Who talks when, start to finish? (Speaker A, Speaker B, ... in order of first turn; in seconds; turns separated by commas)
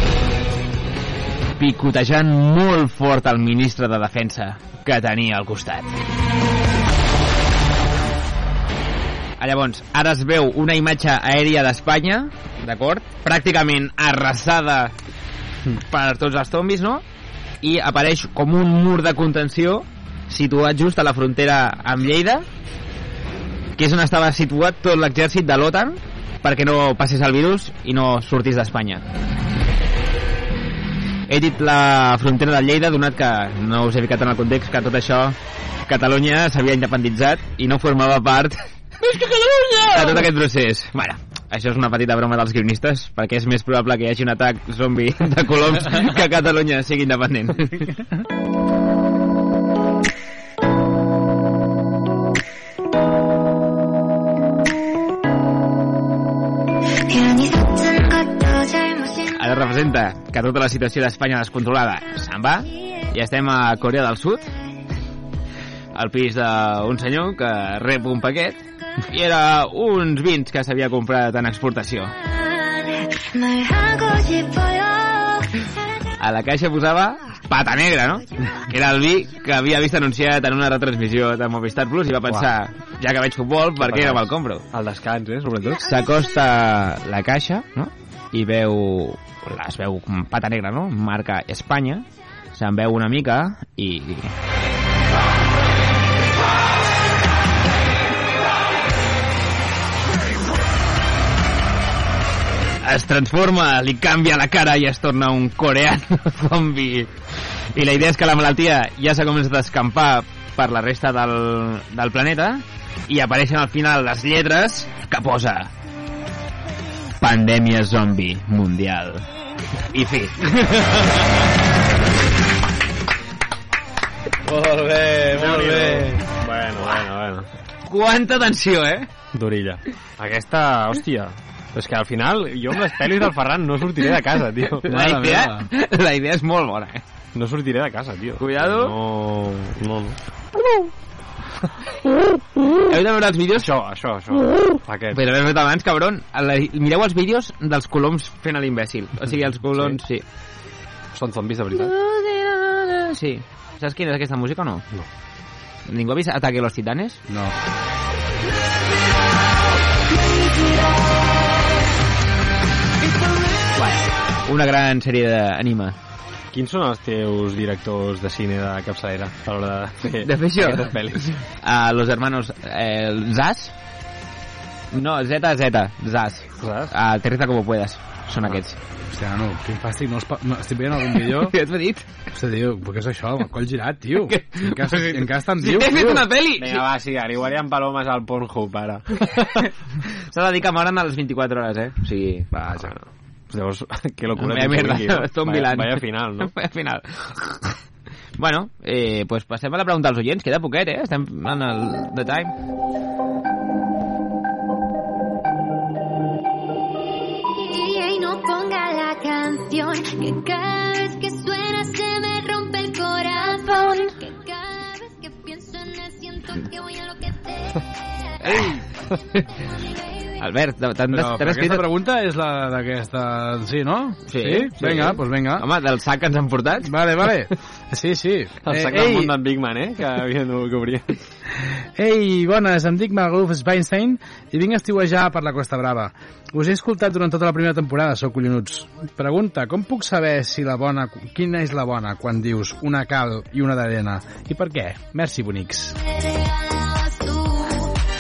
Speaker A: 1.6-5.9, Speaker A: 9.4-14.9, Speaker A: 15.8-17.0, Speaker A: 17.6-22.5, Speaker A: 23.8-29.1, Speaker A: 31.3-38.6, Speaker B: 39.0-40.3, Speaker A: 39.9-47.9, Speaker C: 57.1-59.5, Speaker A: 59.4-64.5, Speaker A: 65.9-72.1, Speaker C: 72.3-75.7, Speaker A: 76.2-84.7, Speaker D: 83.8-85.9, Speaker A: 85.8-94.3, Speaker A: 102.8-107.1, Speaker A: 107.7-115.7, Speaker A: 117.2-119.2, Speaker A: 119.9-120.4, Speaker B: 120.6-121.0, Speaker B: 124.5-126.2, Speaker D: 125.3-127.5, Speaker A: 127.9-129.1, Speaker D: 129.3-134.9, Speaker A: 134.8-137.0, Speaker B: 134.9-135.7, Speaker D: 137.3-140.2, Speaker A: 138.4-138.9, Speaker A: 142.8-143.7, Speaker D: 143.6-145.2, Speaker A: 145.1-150.2, Speaker D: 151.1-151.9, Speaker A: 151.7-154.9, Speaker A: 155.9-157.2, Speaker B: 157.3-157.5, Speaker A: 163.7-166.0, Speaker D: 166.5-171.2, Speaker A: 170.2-173.7, Speaker A: 174.9-178.8, Speaker D: 176.6-176.9, Speaker B: 179.1-181.6, Speaker A: 181.3-182.1, Speaker B: 182.3-186.3, Speaker A: 184.3-186.9, Speaker D: 186.6-189.7, Speaker A: 190.3-192.5, Speaker B: 192.5-192.9, Speaker D: 192.7-196.5, Speaker A: 194.4-197.8, Speaker A: 198.4-202.5, Speaker C: 207.5-217.9, Speaker A: 218.4-218.8, Speaker A: 220.4-221.9, Speaker B: 221.1-225.7, Speaker A: 224.3-226.9, Speaker B: 226.8-229.3, Speaker D: 228.7-231.2, Speaker B: 232.0-246.0, Speaker C: 246.4-247.9